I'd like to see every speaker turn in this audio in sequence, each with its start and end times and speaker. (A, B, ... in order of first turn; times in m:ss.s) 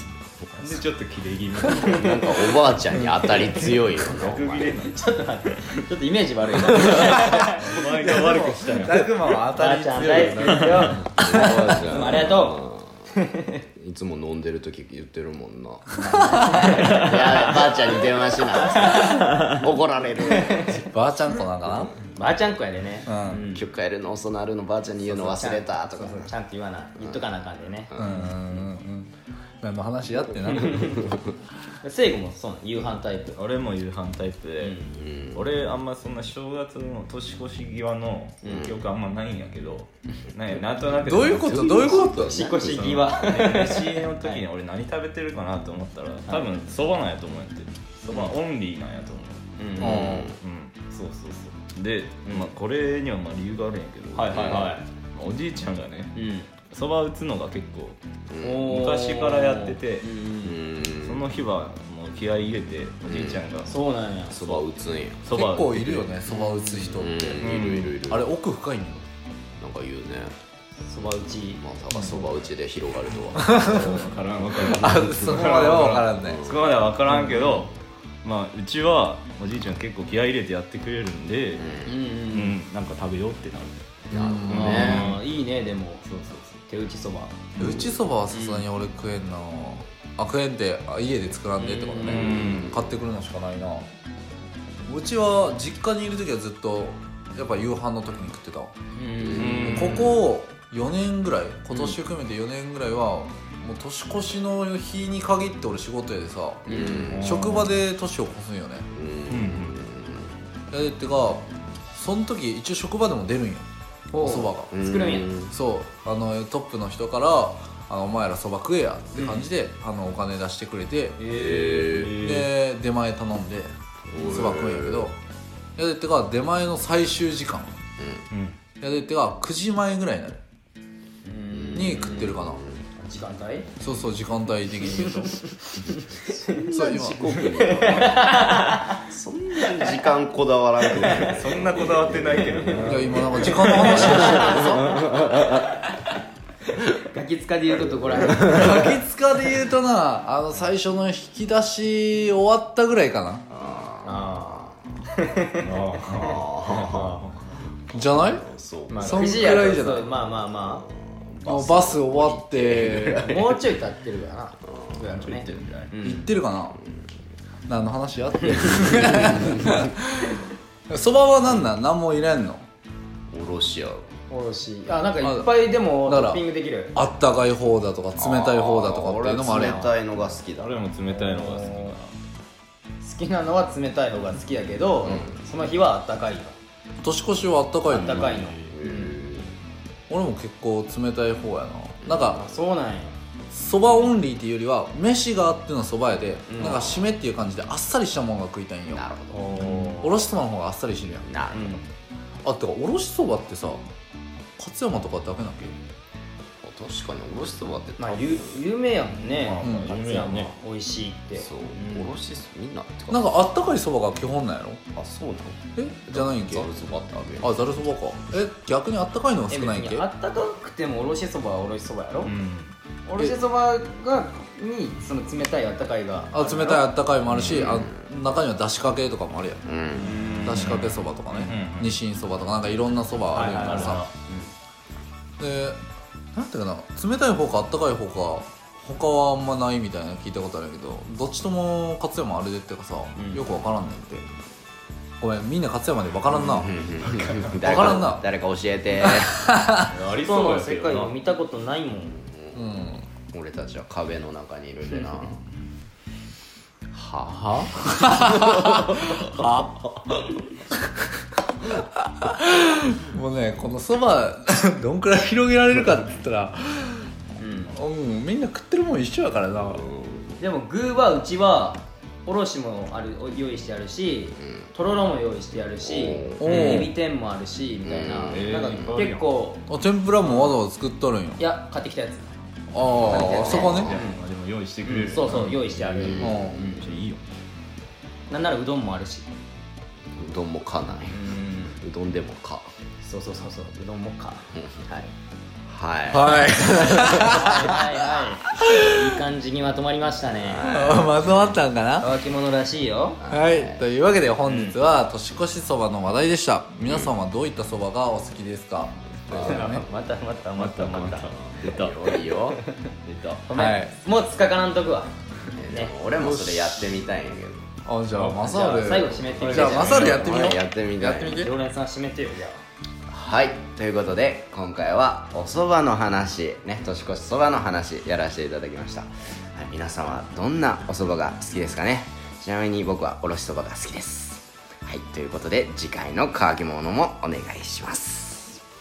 0:00.5-0:05.0 A
0:01.8-0:04.8 B
0:04.8-0:07.8 C
0:06.7-0:09.0 A
0:07.9-0:11.6 D
0:08.9-0:13.6 C
0:11.2-0:13.1 B
0:13.8-0:16.0 B
0:15.9-0:18.0 C
0:16.3-0:16.6 D
0:16.6-0:20.8 B
0:16.8-0:17.1 A
0:18.6-0:19.3 C
0:19.3-0:19.6 A
0:20.3-0:20.9 C
0:20.7-0:21.9 D
0:21.7-0:21.9 B
0:22.2-0:23.6 C
0:23.0-0:23.4 D
0:23.5-0:26.3 B
0:25.0-0:28.2 C
0:27.0-0:27.3 B
0:27.9-0:28.6 B
0:27.9-0:31.1 D
0:30.5-0:31.1 C
0:31.8-0:33.4 C
0:33.3-0:34.8 A
0:34.6-0:34.9 C
0:34.9-0:35.4 B
0:35.3-0:49.4 A
0:38.4-0:38.8 B
0:41.0-0:42.5 D
0:41.5-0:44.4 C
0:41.7-0:43.0 B
0:49.6-0:50.1 C
0:49.7-0:50.4 B
0:49.8-0:50.3 D
0:50.1-0:56.1 A
0:52.2-0:52.5 C
0:54.2-0:54.7 B
0:54.2-0:54.8 C
0:56.1-0:56.5 C
0:56.7-0:58.0 A
0:58.3-0:58.7 B
0:58.4-1:00.6 C
0:58.6-1:00.1 A
1:00.4-1:01.3 B
1:01.0-1:03.8 A
1:03.0-1:03.5 B
1:03.7-1:04.4 C
1:04.3-1:05.2 B
1:04.3-1:04.6 A
1:05.2-1:06.2 A
1:05.3-1:09.0 D
1:06.8-1:08.3 B
1:07.3-1:07.9 A
1:09.6-1:10.3 B
1:10.8-1:12.3 C
1:11.6-1:15.4 B
1:13.4-1:13.9 D
1:13.7-1:17.7 A
1:14.7-1:16.4 D
1:16.2-1:16.8 B
1:18.2-1:23.8 A
1:21.6-1:22.0 B
1:21.8-1:22.6 C
1:24.1-1:25.2 B
1:24.1-1:25.1 D
1:24.5-1:26.0 C
1:24.5-1:25.2 A
1:26.0-1:26.6 A
1:26.7-1:27.4 C
1:27.6-1:28.0 B
1:27.6-1:33.9 D
1:28.3-1:28.7 C
1:31.6-1:32.3 C
1:32.0-1:32.8 A
1:32.1-1:32.9 B
1:34.8-1:38.7 D
1:38.9-1:39.8 C
1:39.2-1:40.0 B
1:39.3-1:40.3 A
1:39.4-1:48.9 D
1:41.7-1:42.0 C
1:46.7-1:47.4 B
1:46.7-1:47.2 C
1:47.1-1:47.7 A
1:48.9-1:50.4 B
1:49.3-1:49.8 A
1:50.7-1:54.7 D
1:54.1-1:55.3 C
1:54.7-1:55.5 B
1:55.5-2:01.3 D
2:01.2-2:02.5 A
2:01.2-2:02.3 B
2:02.0-2:05.2 D
2:04.1-2:05.1 B
2:05.8-2:07.7 D
2:08.0-2:08.2 B
2:08.3-2:08.6 A
2:08.8-2:10.4 D
2:11.2-2:12.3 C
2:11.5-2:12.8 B
2:11.7-2:12.6 D
2:13.0-2:13.7 C
2:13.8-2:15.4 D
2:15.0-2:19.0 C
2:16.3-2:18.4 B
2:16.7-2:17.3 D
2:19.0-2:23.4 B
2:19.6-2:20.0 C
2:21.0-2:25.0 A
2:22.6-2:25.0 C
2:22.8-2:25.0 D
2:27.1-2:29.0 C
2:28.4-2:33.5 D
2:33.5-2:34.7 B
2:34.0-2:35.7 C
2:35.6-2:37.4 A
2:36.1-2:37.2 B
2:37.9-2:38.4 D
2:38.0-2:39.6 B
2:38.9-2:39.3 A
2:39.0-2:40.1 D
2:39.0-2:40.8 C
2:40.5-2:43.6 B
2:41.4-2:43.4 D
2:43.2-2:46.3 C
2:44.7-2:45.7 B
2:45.3-2:45.9 A
2:46.0-2:46.8 D
2:47.7-2:52.6 D
2:48.5-2:49.2 C
2:48.6-2:49.8 B
2:53.3-2:54.1 B
2:54.3-2:56.9 C
2:55.2-2:59.9 D
2:58.2-3:00.7 B
2:59.5-2:59.9 C
3:00.5-3:02.1 A
3:01.2-3:01.9 C
3:03.0-3:06.5 C
3:05.0-3:05.4 B
3:07.0-3:08.5 D
3:07.9-3:09.2 C
3:08.1-3:08.8 A
3:08.7-3:09.5 B
3:10.1-3:12.4 D
3:12.0-3:12.4 B
3:12.3-3:13.1 C
3:13.5-3:21.3 D
3:16.5-3:16.9 C
3:16.5-3:17.1 B
3:18.9-3:19.6 B
3:19.3-3:20.1 A
3:19.6-3:20.1 C
3:21.2-3:21.8 B
3:21.5-3:21.8 C
3:22.4-3:23.8 D
3:24.6-3:25.8 D
3:26.6-3:28.6 B
3:28.0-3:32.1 C
3:29.4-3:30.5 A
3:29.6-3:29.9 D
3:31.4-3:33.3 B
3:33.1-3:34.8 D
3:34.9-3:37.6 B
3:35.8-3:36.7 D
3:37.4-3:40.0 D
3:39.5-3:42.3 C
3:42.2-3:42.7 A
3:43.0-3:46.9 C
3:46.3-3:49.6 D
3:47.3-3:47.6 A
3:47.4-3:48.1 B
3:49.6-3:50.2 B
3:50.0-3:52.0 A
3:50.2-3:50.5 C
3:50.4-3:54.1 D
3:53.3-3:54.5 C
3:53.3-3:54.1 A
3:55.4-3:55.8 D
3:56.3-4:04.2 D
4:03.2-4:03.4 C
4:05.2-4:06.7 D
4:06.4-4:09.5 B
4:07.0-4:07.6 A
4:07.6-4:08.2 D
4:09.0-4:09.9 D
4:09.9-4:12.2 C
4:09.9-4:11.1 A
4:12.2-4:15.4 B
4:12.5-4:13.1 D
4:16.9-4:19.6 B
4:17.6-4:19.6 D
4:21.8-4:27.1 D
4:27.4-4:27.8 C
4:27.7-4:29.8 D
4:29.8-4:30.3 B
4:30.4-4:39.6 C
4:34.4-4:34.7 B
4:35.8-4:36.7 B
4:36.4-4:36.9 D
4:36.4-4:36.9 A
4:37.8-4:39.0 B
4:38.3-4:39.2 A
4:39.7-4:41.4 D
4:40.2-4:40.6 C
4:41.4-4:42.3 C
4:42.7-4:43.9 D
4:42.9-4:44.0 B
4:43.0-4:44.2 C
4:43.5-4:45.6 A
4:44.8-4:46.8 C
4:45.7-4:46.8 B
4:46.2-4:46.7 D
4:46.6-4:47.2 A
4:48.3-4:49.3 C
4:50.1-4:52.7 B
4:51.1-4:51.8 C
4:53.0-4:55.1 C
4:55.7-4:57.6 B
4:56.1-4:57.8 D
4:57.1-5:00.7 C
4:58.5-4:58.9 D
5:00.2-5:01.6 B
5:00.6-5:02.1 D
5:02.0-5:03.2 C
5:03.2-5:03.8 B
5:03.2-5:09.8 D
5:04.4-5:04.8 C
5:06.8-5:07.1 B
5:09.3-5:09.8 B
5:09.3-5:11.3 C
5:10.6-5:12.3 A
5:11.5-5:12.6 B
5:13.0-5:13.4 A
5:13.5-5:15.1 C
5:13.5-5:13.9 D
5:15.6-5:17.7 B
5:15.6-5:16.0 C
5:16.2-5:16.8 D
5:17.8-5:21.5 D
5:18.1-5:20.5 A
5:18.4-5:20.5 C
5:19.7-5:21.5 B
5:21.0-5:22.6 C
5:23.1-5:38.6 B